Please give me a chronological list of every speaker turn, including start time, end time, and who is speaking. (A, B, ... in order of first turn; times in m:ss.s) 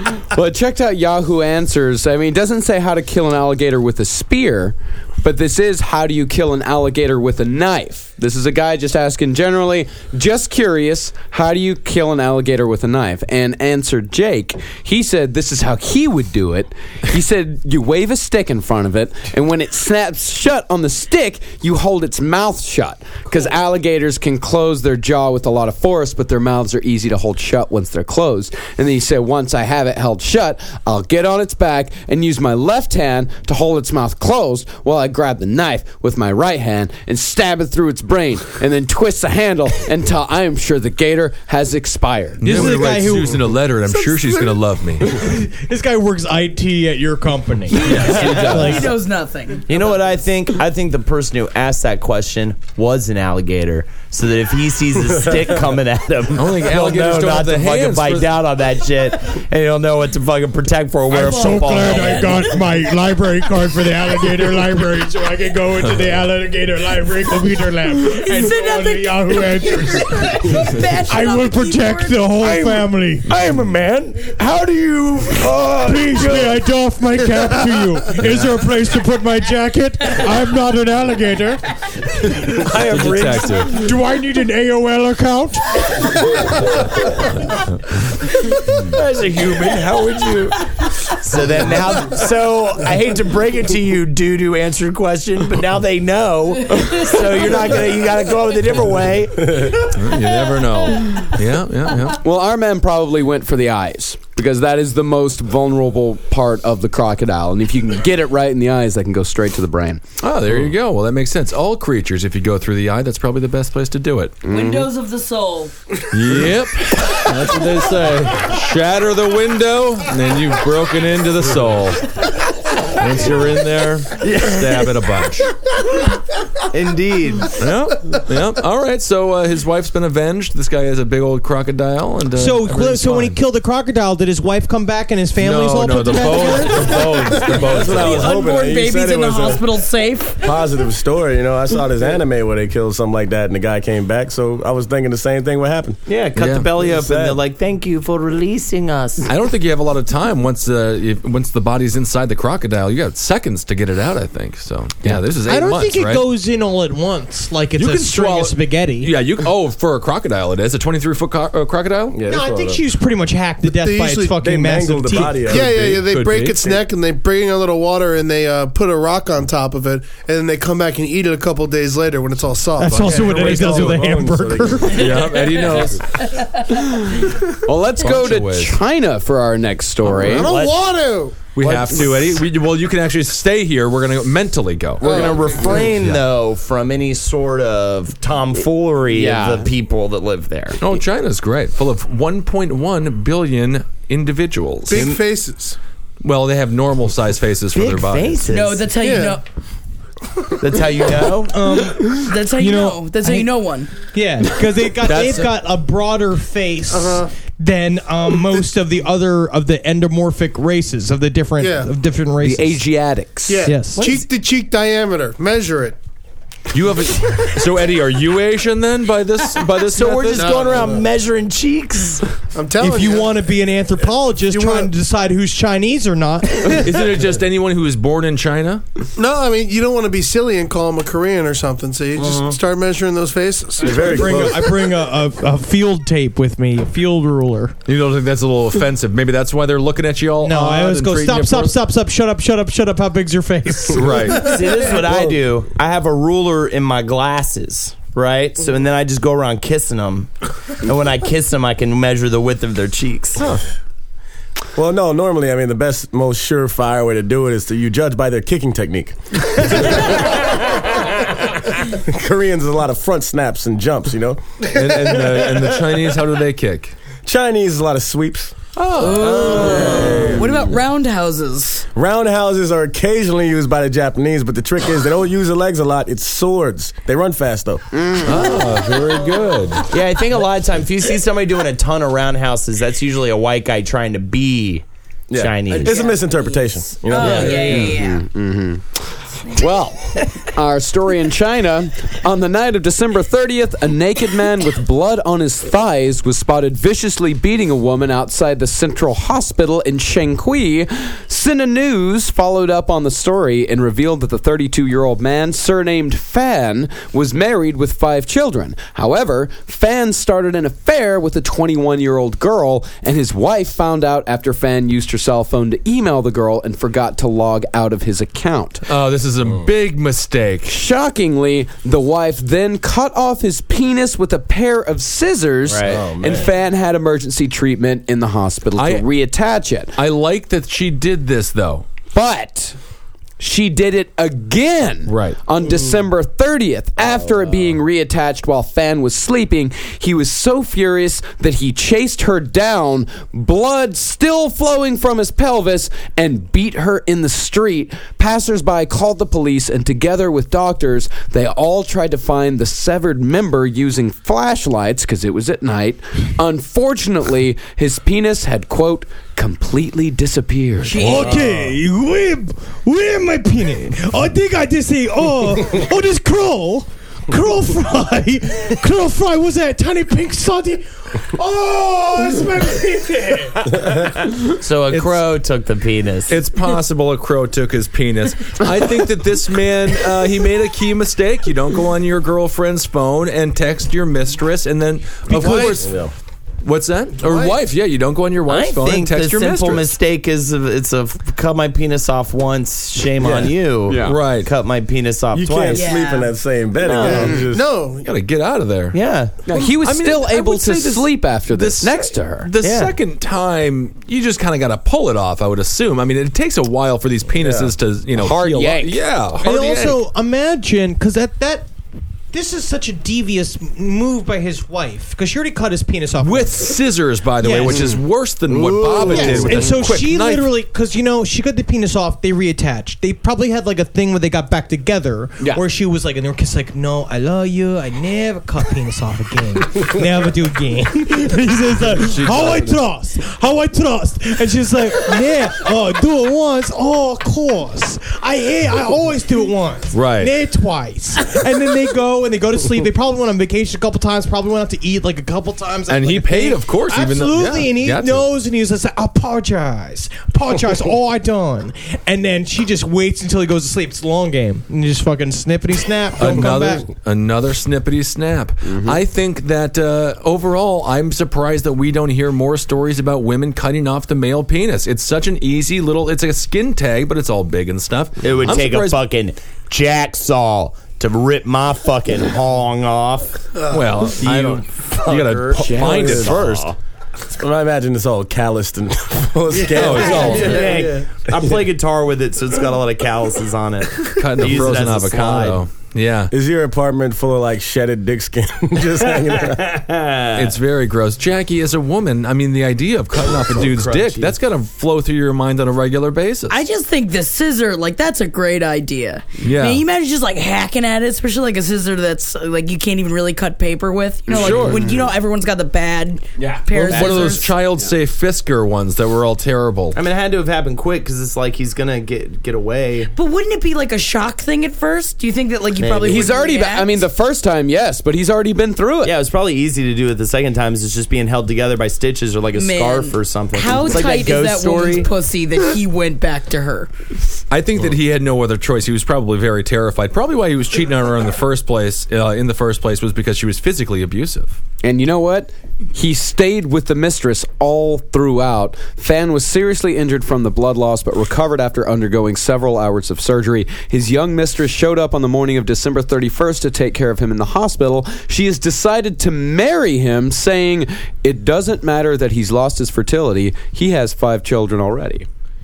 0:00.3-0:42.8 A
0:42.4-0:45.0 B
0:42.4-0:43.4 C
0:43.9-0:44.6 D
0:45.0-0:48.9 C
0:47.7-0:50.0 E
0:47.8-0:48.4 B
0:48.1-0:48.6 F
0:48.2-0:48.7 A
0:49.7-1:02.4 F
0:56.3-0:58.3 B
1:01.1-1:13.3 C
1:01.2-1:02.4 E
1:08.0-1:12.6 E
1:12.6-1:16.6 G
1:15.6-1:21.6 C
1:22.5-1:23.7 F
1:22.6-1:23.8 B
1:23.6-1:26.1 C
1:28.8-1:39.6 F
1:39.8-1:42.2 B
1:42.1-1:50.0 A
1:50.2-1:54.4 B
1:54.4-1:54.9 A
1:54.5-1:55.8 E
1:56.1-2:02.1 B
2:02.9-2:05.5 B
2:04.2-2:05.0 F
2:06.7-2:07.6 F
2:07.6-2:13.4 B
2:12.3-2:17.1 C
2:15.4-2:18.3 B
2:16.9-2:19.6 G
2:17.8-2:20.5 E
2:20.4-2:26.0 G
2:26.1-2:29.3 F
2:26.3-2:26.7 B
2:26.8-2:27.4 G
2:29.2-2:36.2 B
2:35.4-2:39.1 C
2:37.8-2:42.2 B
2:42.1-2:42.8 G
2:42.3-2:45.6 C
2:43.6-2:44.4 D
2:44.4-2:46.1 G
2:45.4-2:53.6 D
2:45.9-2:46.7 B
2:52.8-2:55.1 C
2:52.9-2:54.1 B
2:53.0-2:55.3 G
2:54.8-2:56.0 B
2:55.1-2:56.7 E
2:57.1-3:00.5 A
2:58.0-2:58.8 B
3:00.1-3:00.4 B
3:00.2-3:00.8 F
3:00.2-3:01.4 D
3:01.5-3:06.2 B
3:01.6-3:02.4 F
3:05.0-3:10.8 F
3:05.0-3:05.6 D
3:09.1-3:09.7 A
3:10.8-3:15.2 B
3:14.9-3:15.8 D
3:16.2-3:18.4 B
3:17.7-3:18.9 F
3:18.5-3:19.4 E
3:19.0-3:19.4 D
3:20.6-3:21.6 F
3:21.5-3:23.5 C
3:22.1-3:23.9 E
3:24.0-3:32.8 C
3:25.0-3:25.5 B
3:26.9-3:27.3 D
3:31.6-3:31.9 D
3:32.4-3:33.7 A
3:33.5-3:36.0 D
3:33.6-3:34.2 C
3:34.0-3:34.2 F
3:36.7-3:40.7 B
3:39.8-3:42.3 F
3:40.3-3:41.0 D
3:42.5-3:43.4 D
3:42.8-3:46.9 C
3:44.5-3:44.9 D
3:46.7-3:48.8 B
3:49.2-3:54.2 D
3:53.8-3:54.8 G
3:53.9-3:57.7 C
3:57.8-4:01.8 B
4:00.4-4:04.4 C
4:03.9-4:04.6 B
4:04.3-4:13.4 F
4:05.0-4:05.3 G
4:14.8-4:21.1 G
4:21.9-4:25.7 G
4:24.7-4:26.9 B
4:27.2-4:28.5 G
4:28.8-4:30.4 B
4:28.9-4:31.8 E
4:29.1-4:30.5 G
4:31.9-4:37.8 G
4:37.9-4:38.6 A
4:38.2-4:39.8 B
4:39.9-4:44.8 F
4:45.3-4:47.8 G
4:45.4-4:46.0 F
4:45.7-4:48.2 E
4:47.1-4:47.9 F
4:47.7-5:18.8 A
5:18.8-5:20.7 B
5:20.6-5:29.9 A
5:25.7-5:26.0 F
5:25.8-5:26.5 G
5:28.8-5:29.0 B
5:30.0-5:31.8 B
5:32.1-5:32.8 A
5:33.4-6:01.2 A
5:35.1-5:35.4 B
6:00.8-6:01.5 E
6:01.0-6:13.6 C
6:14.4-6:16.4 F
6:14.9-6:15.2 B
6:16.3-6:25.9 B
6:25.3-6:26.1 G
6:25.4-6:25.7 D
6:26.6-6:29.9 B
6:27.2-6:27.6 D
6:28.5-6:36.0 F
6:33.2-6:33.5 G
6:33.9-6:34.2 A
6:34.0-6:34.5 B
6:35.3-6:37.7 G
6:35.7-6:36.4 E
6:36.8-6:37.4 F
6:37.0-6:38.1 D
6:37.1-6:37.4 A
6:38.0-6:50.0 B
6:38.9-6:39.3 F
6:39.5-6:42.5 A
6:42.6-6:42.9 F
6:47.3-6:47.7 G
6:48.1-6:49.0 A
6:49.4-6:51.7 C
6:52.3-6:56.8 C
6:56.2-7:00.5 B
6:57.4-6:57.9 C
6:58.5-6:59.6 F
6:59.1-7:36.8 C
7:11.9-7:12.8 B
7:19.9-7:20.3 B
7:25.9-7:28.2 B
7:36.2-7:49.0 B
7:38.6-7:39.0 A
7:48.2-7:53.5 F
7:53.5-7:53.9 D
7:53.7-7:56.7 B
7:54.0-7:56.8 F
7:55.6-7:56.4 G
7:57.4-8:00.7 G
7:59.7-8:00.7 B
7:59.8-8:05.6 F
8:04.1-8:06.3 B
8:06.3-8:09.7 G
8:09.3-8:10.5 F
8:10.4-8:16.6 B
8:13.2-8:14.3 F
8:16.5-8:27.5 E
8:19.4-8:19.8 B
8:24.3-8:25.0 A
8:24.3-8:24.9 B
8:26.4-8:27.5 F
8:26.7-8:30.0 B
8:29.9-8:33.1 F
8:33.1-8:37.0 E
8:35.8-8:36.4 F
8:36.0-8:39.1 A
8:39.0-8:45.1 F
8:42.6-8:46.9 E
8:47.5-8:54.6 B
8:54.8-9:15.3 A